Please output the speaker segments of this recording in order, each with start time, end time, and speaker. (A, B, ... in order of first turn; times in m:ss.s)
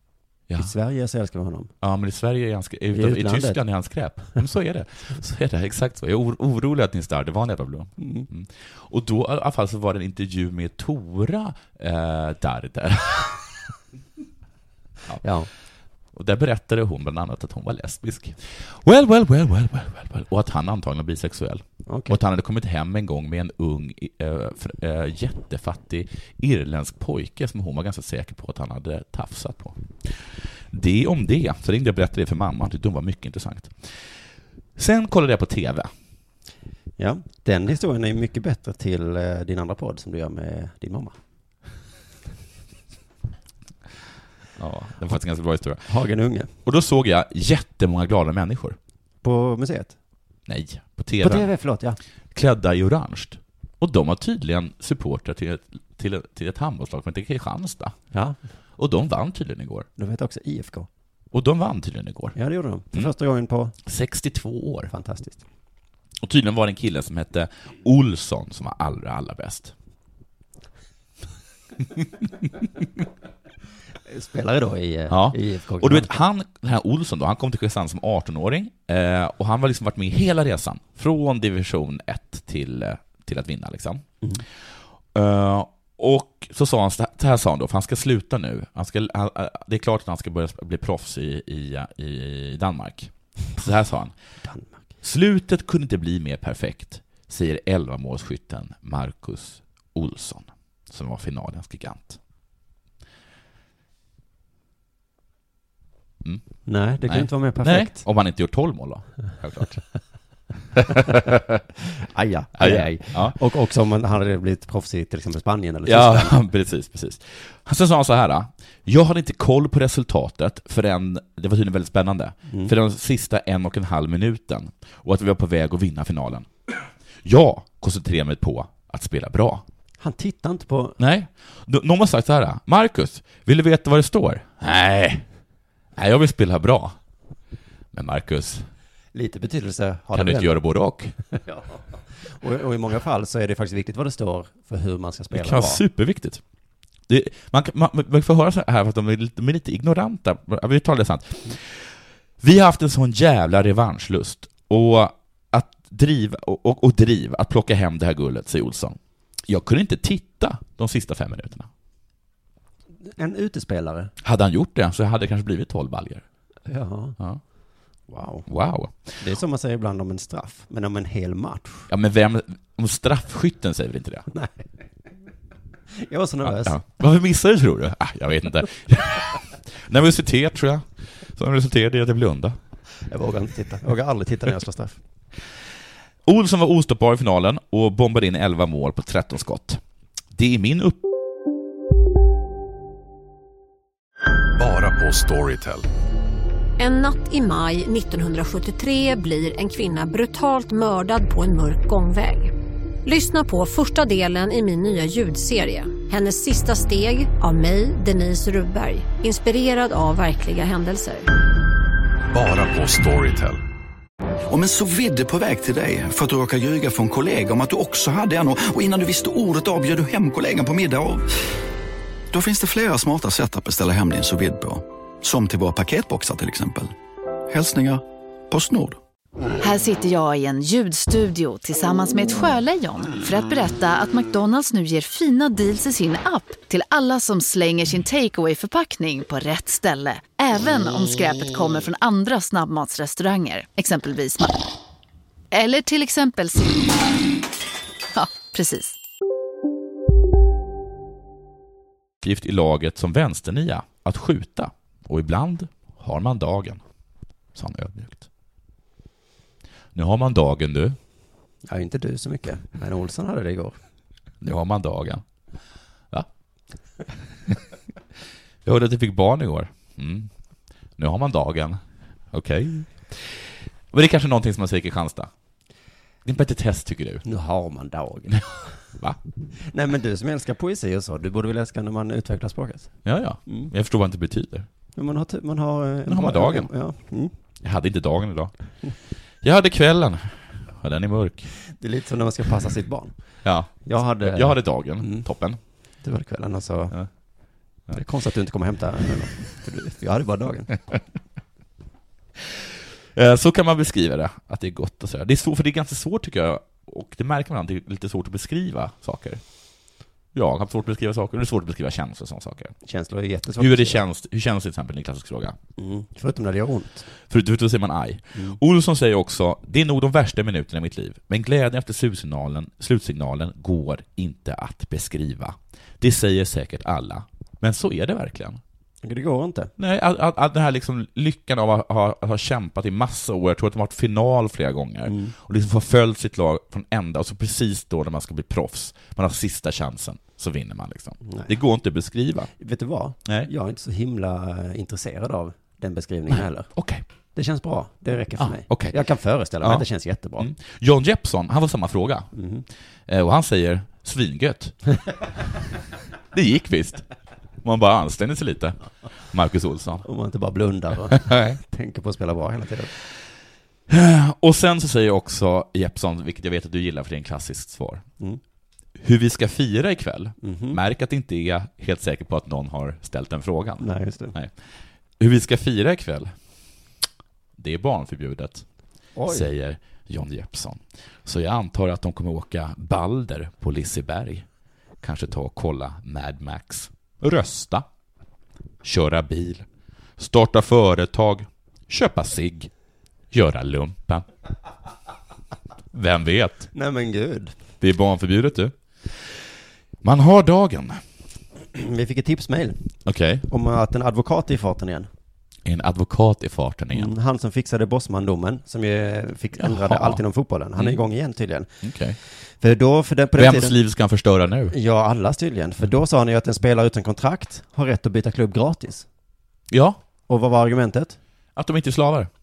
0:00.6-0:01.7 A
0:01.8-0:13.6 B
0:02.9-0:03.6 A
0:08.0-0:08.3 A
0:15.2-0:15.5 A
0:16.1-0:34.1 B
0:21.9-0:22.2 A
0:34.8-0:35.9 B
0:37.0-0:41.2 A
0:44.6-0:45.9 B
0:45.9-0:46.5 A
0:46.6-0:48.8 B
0:49.2-0:50.0 A
0:50.5-0:51.5 B
0:51.2-0:52.0 A
0:52.3-0:57.9 B
0:58.1-0:58.4 A
0:58.8-0:59.9 B
1:00.0-1:00.9 A
1:01.3-1:02.4 B
1:02.4-1:03.8 A
1:03.9-1:04.9 B
1:04.9-1:05.4 A
1:06.2-1:09.7 B
1:14.1-1:16.2 A
1:15.1-1:24.0 B
1:25.1-1:34.1 B
1:34.4-1:34.8 A
1:35.0-1:42.2 B
1:46.6-1:48.0 A
1:47.0-1:49.8 B
1:50.8-1:51.6 B
1:52.0-1:56.4 A
1:52.6-1:53.4 B
1:55.9-2:09.6 B
2:10.0-2:11.0 A
2:11.0-2:15.2 B
2:16.0-2:17.0 B
2:17.9-2:18.7 B
2:19.1-2:20.6 A
2:20.1-2:21.1 B
2:21.4-2:25.8 A
2:25.3-2:26.4 B
2:27.1-2:41.7 B
2:43.2-2:44.1 A
2:44.2-2:46.2 B
2:46.7-2:47.2 A
2:48.1-2:48.5 A
2:48.5-2:49.2 B
2:49.2-2:51.9 A
2:51.9-2:54.3 B
2:54.3-2:54.6 A
2:56.0-2:56.8 A
2:56.4-3:02.6 B
3:03.1-3:05.0 A
3:06.2-3:09.8 B
3:10.4-3:11.0 B
3:14.6-3:15.9 C
3:16.8-3:22.5 D
3:23.0-3:31.3 D
3:32.3-3:33.6 C
3:34.5-3:41.3 E
3:42.3-3:46.9 E
3:47.5-3:49.0 E
3:49.6-4:04.5 F
4:05.5-4:06.8 F
4:08.2-4:08.9 F
4:12.2-4:16.8 B
4:17.6-4:18.3 B
4:19.9-4:21.0 B
4:21.7-4:23.8 A
4:24.4-4:25.2 B
4:28.6-4:30.3 B
4:31.0-4:35.3 B
4:36.2-4:37.2 B
4:37.2-4:38.5 A
4:39.6-4:42.9 A
4:43.0-4:44.7 B
4:44.9-4:47.3 A
4:46.1-4:46.7 B
4:47.6-4:48.5 B
4:49.4-4:51.5 B
4:51.8-4:53.1 A
4:53.4-4:55.6 B
4:53.8-4:55.3 A
4:56.0-4:57.0 A
4:57.9-5:00.8 A
5:03.1-5:09.4 B
5:10.3-5:12.7 B
5:12.8-5:14.0 A
5:13.6-5:15.6 B
5:15.8-5:17.1 A
5:17.3-5:28.6 B
5:29.0-5:29.7 A
5:29.8-5:42.5 B
5:35.1-5:35.3 A
5:41.2-5:41.5 A
5:42.6-5:46.7 A
5:46.3-5:47.0 B
5:47.4-5:50.5 A
5:48.4-5:49.0 B
5:49.6-5:49.9 B
5:50.4-5:52.3 B
5:52.3-5:52.6 A
5:53.1-5:54.8 B
5:56.3-5:57.0 B
5:57.6-5:58.8 B
5:59.3-6:00.1 B
6:00.0-6:02.9 A
6:01.1-6:01.6 B
6:03.9-6:08.0 B
6:09.0-6:14.6 B
6:10.4-6:10.8 A
6:13.8-6:14.4 A
6:15.2-6:16.3 B
6:17.6-6:18.6 B
6:19.2-6:19.5 A
6:19.3-6:24.4 B
6:25.0-6:27.9 B
6:28.8-6:29.6 B
6:30.2-6:32.7 B
6:33.3-6:34.2 B
6:35.9-6:36.7 B
6:36.7-6:37.5 A
6:37.8-6:39.3 B
6:40.0-6:41.0 B
6:41.7-6:42.8 A
6:43.0-6:43.5 B
6:43.5-6:45.1 A
6:45.6-6:47.1 B
6:46.9-6:51.7 A
6:49.6-6:50.2 B
6:51.8-6:52.2 B
6:52.6-6:53.8 A
6:53.4-6:54.7 B
6:54.7-6:59.1 A
6:59.7-7:00.0 B
7:00.3-7:01.2 A
7:01.6-7:02.3 B